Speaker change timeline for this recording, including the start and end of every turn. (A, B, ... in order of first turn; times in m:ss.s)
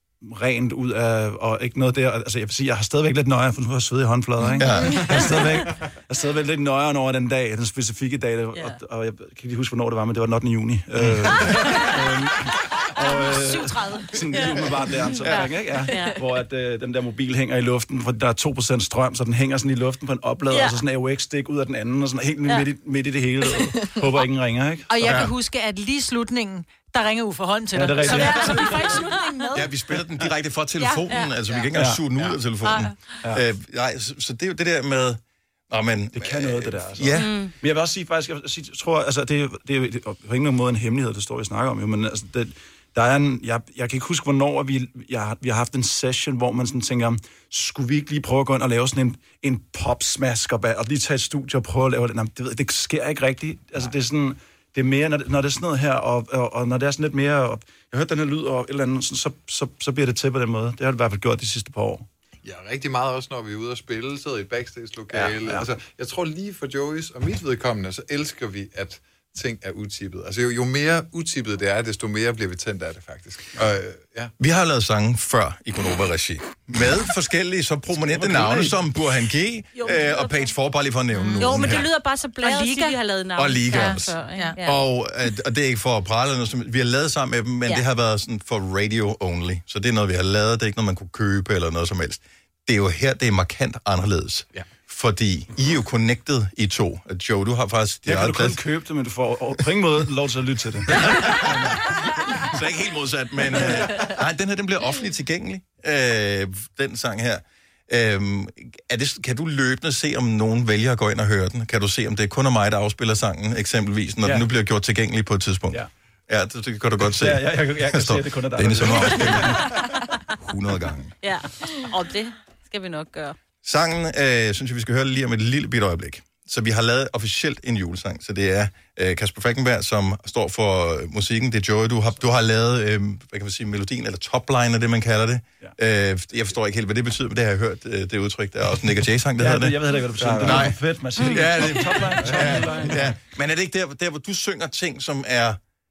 0:00.2-0:25.2 A
0:04.6-0:05.4 B
0:11.0-0:11.3 B
0:13.0-0:14.1 C
0:14.3-0:14.6 D
0:15.2-0:16.2 D
0:20.5-0:20.8 D
0:24.9-0:29.7 C
0:25.0-0:25.3 B
0:27.7-0:28.9 A
0:28.1-0:29.5 D
0:29.5-0:37.3 B
0:30.8-0:31.3 D
0:31.7-0:32.1 A
0:32.6-0:32.9 C
0:36.1-1:02.0 A
0:37.1-0:37.5 D
1:02.4-1:14.3 E
1:05.1-1:05.6 A
1:14.4-1:21.9 B
1:17.9-1:18.8 A
1:19.8-1:20.5 D
1:21.3-1:24.8 D
1:21.4-1:21.8 C
1:22.4-1:23.0 C
1:23.4-1:38.6 B
1:23.7-1:24.6 C
1:38.0-1:41.8 A
1:40.9-1:59.7 B
1:54.2-1:54.5 A
1:57.0-1:59.7 A
2:00.4-2:01.1 B
2:01.2-2:03.4 D
2:03.6-2:25.6 B
2:19.4-2:23.2 A
2:21.2-2:21.5 D
2:22.2-2:22.6 E